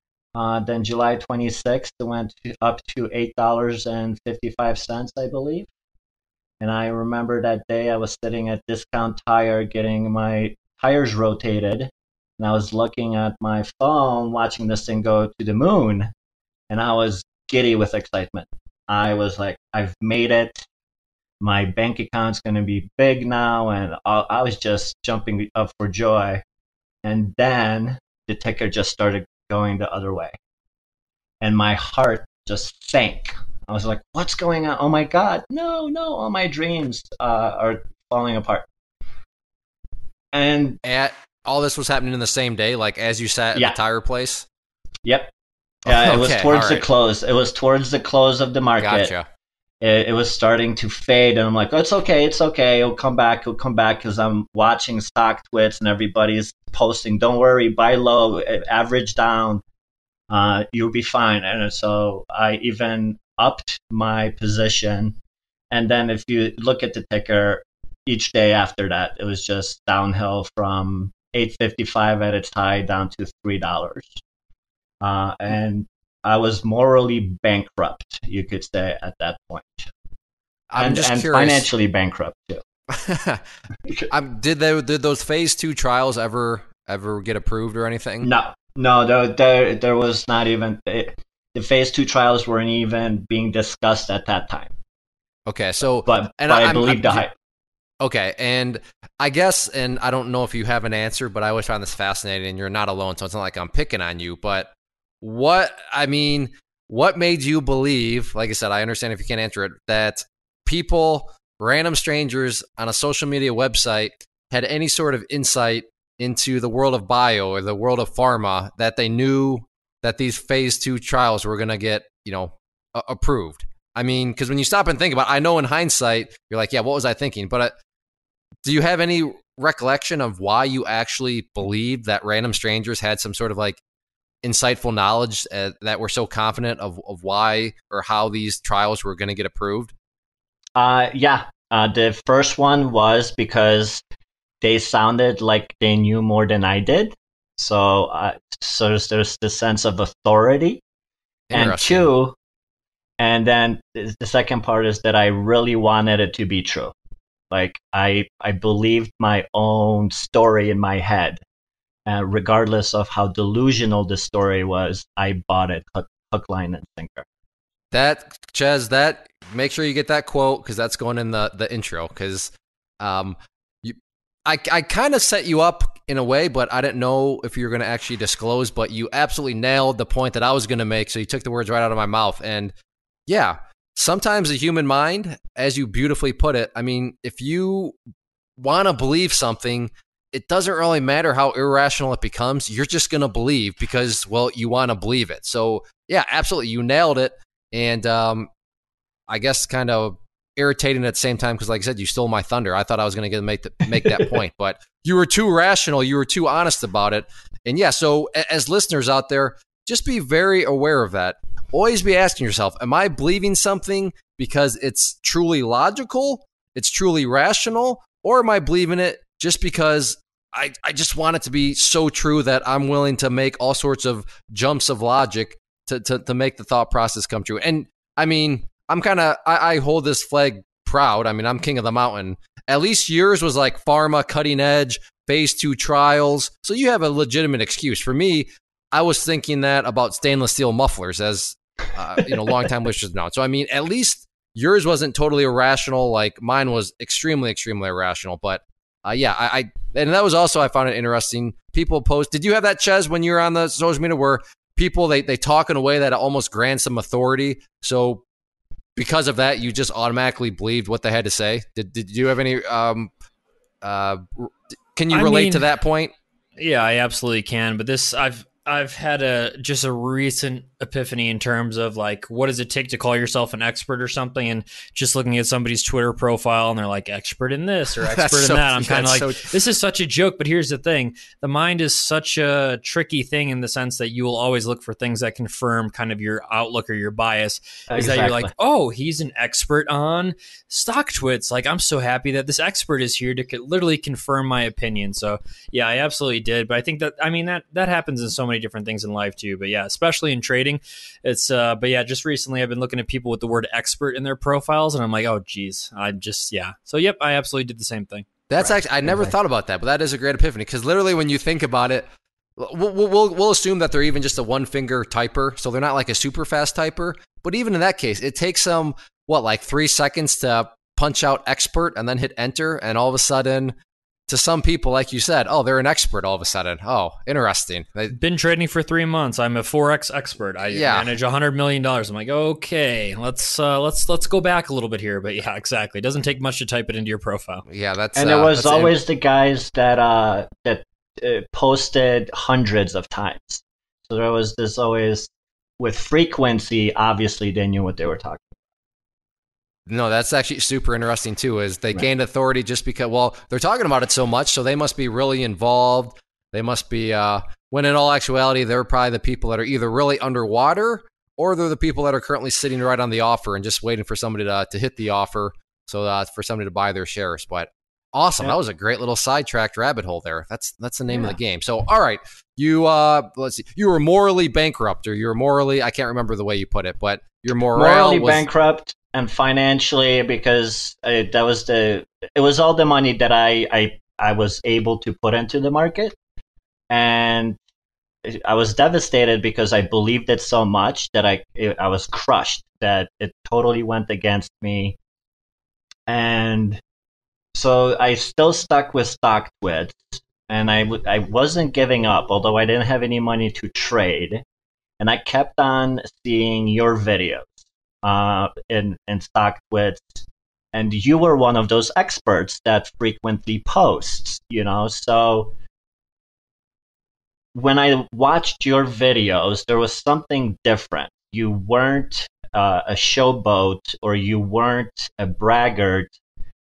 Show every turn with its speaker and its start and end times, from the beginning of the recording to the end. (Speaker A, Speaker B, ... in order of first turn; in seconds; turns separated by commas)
Speaker A: 0.3-5.7, Speaker A: 6.6-16.1, Speaker A: 16.7-20.6, Speaker A: 21.4-26.4, Speaker A: 27.0-30.4, Speaker A: 31.4-38.7, Speaker A: 40.3-40.8, Speaker B: 40.8-44.5, Speaker A: 45.0-45.3, Speaker A: 45.8-49.1, Speaker B: 45.9-46.9, Speaker B: 48.8-49.3, Speaker A: 49.8-59.6, Speaker A: 60.3-65.2, Speaker A: 65.7-74.2, Speaker A: 75.0-79.9, Speaker B: 80.7-81.7, Speaker A: 80.8-82.6, Speaker B: 82.9-83.4, Speaker B: 84.1-88.3, Speaker A: 88.2-94.7, Speaker B: 95.5-97.2, Speaker A: 96.0-97.3, Speaker B: 98.0-127.7, Speaker B: 128.6-133.8, Speaker B: 134.4-139.9, Speaker A: 140.8-144.0, Speaker A: 144.6-150.8, Speaker B: 151.5-152.1, Speaker A: 151.5-152.3, Speaker A: 153.2-156.9, Speaker A: 157.5-161.4, Speaker A: 162.1-167.2, Speaker B: 167.9-182.7, Speaker B: 183.3-187.9, Speaker B: 188.6-198.5, Speaker B: 199.3-258.2, Speaker B: 258.9-263.1, Speaker B: 263.8-266.1, Speaker C: 265.1-265.7, Speaker C: 266.6-308.3, Speaker B: 277.9-279.5, Speaker A: 287.9-288.5, Speaker B: 308.5-323.7, Speaker A: 308.6-309.3, Speaker B: 324.3-328.1, Speaker C: 328.1-337.6, Speaker B: 330.7-331.1, Speaker B: 337.7-338.9, Speaker A: 338.1-348.5, Speaker B: 349.9-378.4, Speaker A: 371.1-371.4, Speaker A: 377.7-386.1, Speaker A: 386.9-387.6, Speaker A: 388.2-395.0, Speaker A: 396.1-396.8, Speaker A: 397.5-404.4, Speaker A: 405.0-415.5, Speaker A: 417.5-426.1